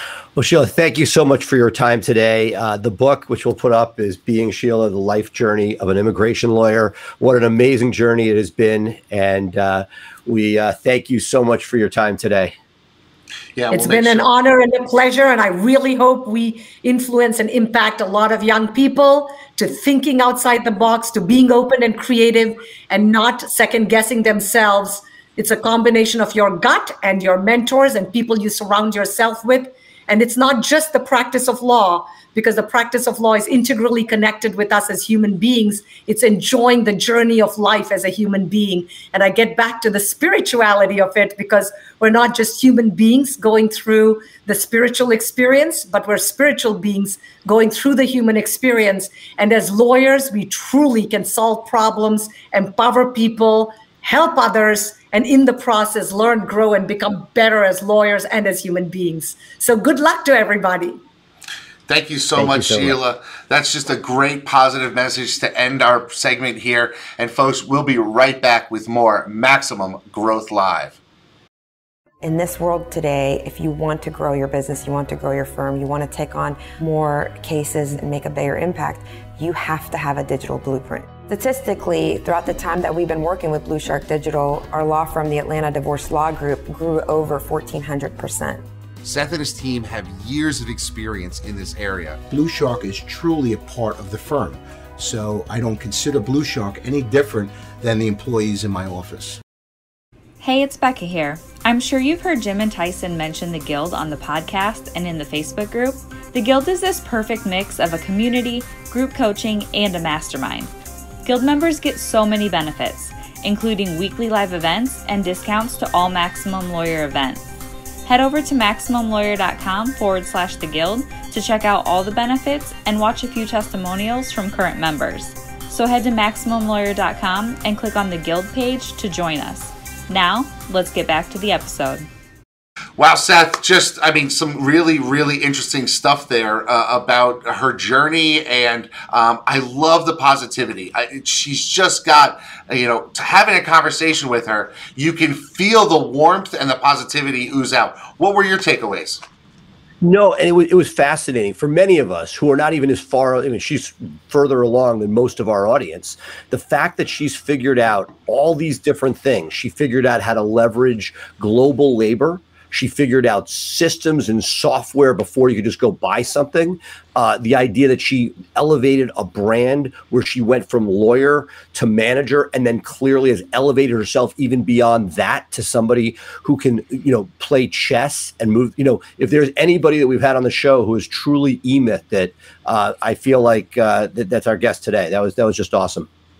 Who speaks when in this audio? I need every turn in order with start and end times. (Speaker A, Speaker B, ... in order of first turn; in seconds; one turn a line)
Speaker A: 0.3-12.5
Speaker B: 13.6-14.3
Speaker C: 13.7-61.0
Speaker B: 61.9-71.0
Speaker A: 62.3-63.0
Speaker D: 72.2-88.6
Speaker B: 89.0-92.2
Speaker E: 92.3-99.4
Speaker F: 100.4-110.7
Speaker F: 111.2-117.4
Speaker F: 118.0-132.1
Speaker B: 133.0-149.2
Speaker A: 150.0-186.1